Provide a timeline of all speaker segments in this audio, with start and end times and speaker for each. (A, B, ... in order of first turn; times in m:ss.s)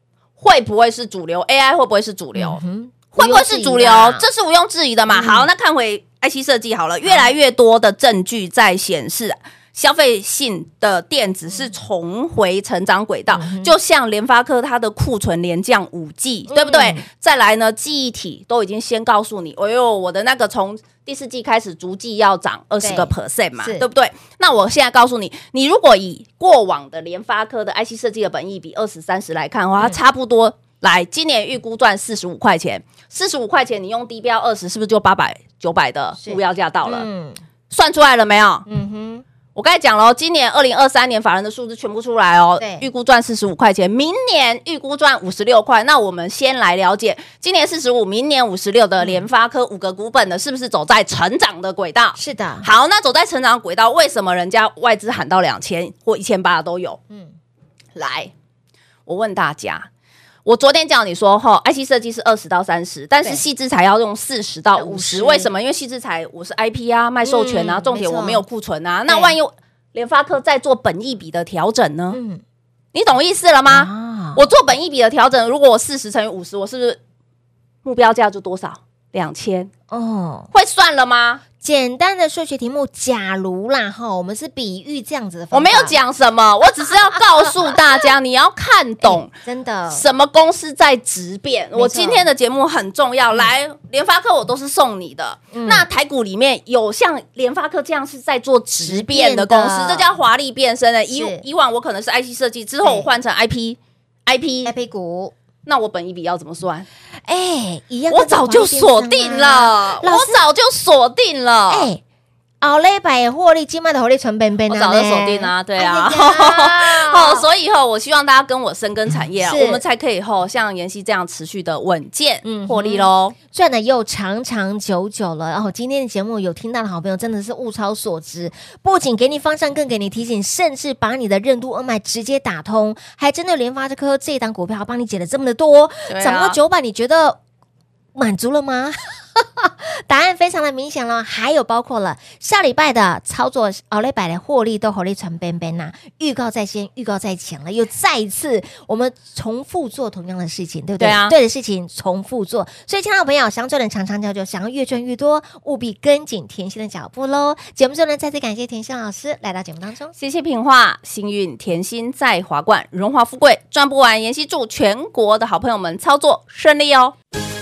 0:00.4-0:02.6 A
0:02.3-0:04.2 B
0:03.1-0:37.1 A
0:05.1-0:05.5 B
0:07.0-0:07.3 B
0:13.3-0:13.7 B
0:16.5-0:17.0 B
0:22.8-0:23.8 B
0:36.2-0:37.4 B
0:37.7-0:38.6 A
0:38.7-0:39.2 B
0:39.5-0:57.0 A
0:42.6-0:42.9 B
0:49.0-0:49.2 B
0:52.2-0:52.7 B
0:57.1-0:57.3 B
0:58.0-0:58.3 A
0:59.0-0:59.9 A
1:00.4-1:12.2 A
1:04.8-1:05.5 B
1:07.2-1:08.4 B
1:09.1-1:09.4 B
1:12.1-1:12.4 B
1:12.9-1:17.0 A
1:13.7-1:14.4 B
1:17.8-1:19.7 A
1:19.9-1:20.5 B
1:20.5-1:21.4 A
1:21.6-1:26.0 B
1:25.5-1:29.3 A
1:29.0-1:30.0 B
1:29.9-1:44.7 A
1:31.8-1:32.3 B
1:35.5-1:35.8 B
1:38.8-1:40.1 B
1:41.1-1:41.4 B
1:42.8-1:43.1 B
1:44.6-1:45.3 B
1:45.6-1:46.9 A
1:47.2-1:50.4 B
1:48.1-1:51.9 A
1:51.7-1:52.0 B
1:52.6-1:57.5 B
1:54.7-2:03.3 A
1:59.4-1:59.8 B
2:02.4-2:17.4 B
2:16.1-2:16.6 A
2:18.1-2:40.1 B
2:31.0-2:31.3 A
2:40.2-2:47.2 A